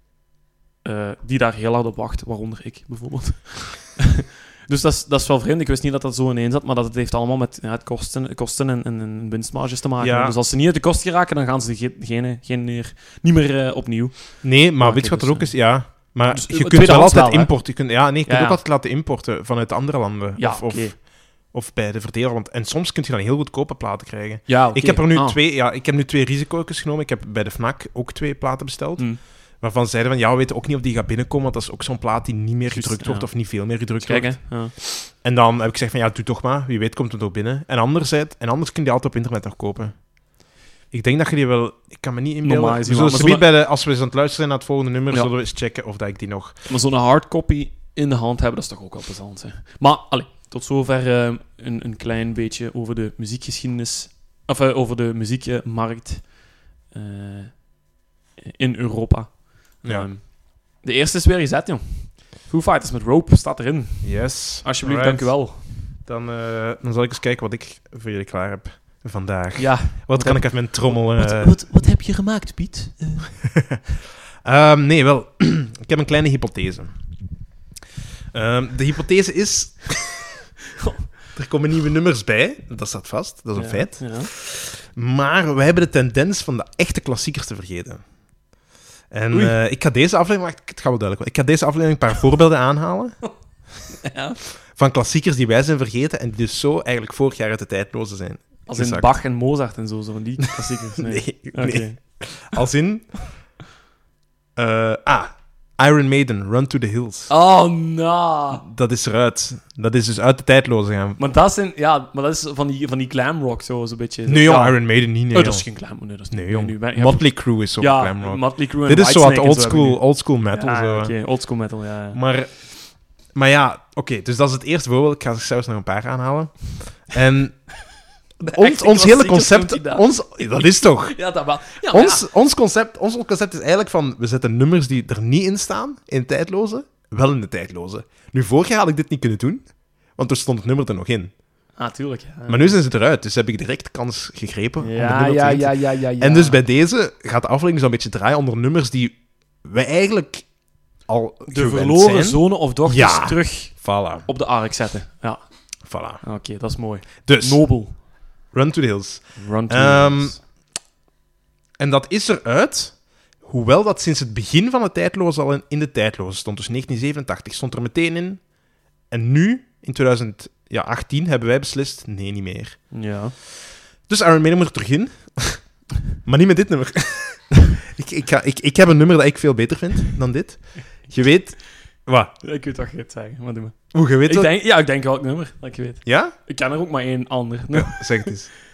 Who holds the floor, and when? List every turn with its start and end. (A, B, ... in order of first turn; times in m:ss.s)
0:00.8-0:18.6 A
0:10.0-0:10.4 B
0:14.4-0:40.1 B
0:20.4-0:21.0 A
0:24.4-0:25.4 A
0:32.7-0:34.7 A
0:40.9-0:46.7 B
0:42.4-0:43.4 A
0:46.6-0:56.4 A
0:56.9-0:57.7 A
0:58.4-1:05.6 A
0:59.8-1:00.1 B
1:04.0-1:11.5 B
1:09.6-1:13.6 A
1:14.4-1:17.2 B
1:18.3-1:20.3 B
1:21.3-1:28.1 B
1:23.5-1:24.3 A
1:29.1-1:33.3 B
1:29.3-1:29.6 A
1:34.0-1:34.4 A
1:34.7-1:39.1 B
1:38.6-1:42.2 A
1:41.1-1:43.3 B
1:44.6-1:47.3 B
1:47.3-1:48.6 A
1:48.5-1:51.2 B
1:51.2-2:02.2 A
1:54.3-2:01.2 B
2:02.1-2:07.8 B
2:08.4-2:12.3 A
2:08.4-2:21.3 B
2:21.8-2:22.8 A
2:22.5-2:30.5 B
2:24.8-2:26.6 A
2:31.0-2:34.3 B
2:31.5-2:35.4 A
2:35.8-2:36.2 B
2:36.0-2:38.0 A
2:37.2-2:37.7 B
2:38.5-2:40.4 B
2:39.4-2:40.4 A
2:41.8-2:48.4 B
2:49.1-2:52.9 B
2:52.9-2:53.3 A
2:54.0-3:02.4 B
3:02.4-3:08.3 A
3:03.9-3:04.5 B
3:06.0-3:06.4 B
3:07.7-3:08.5 B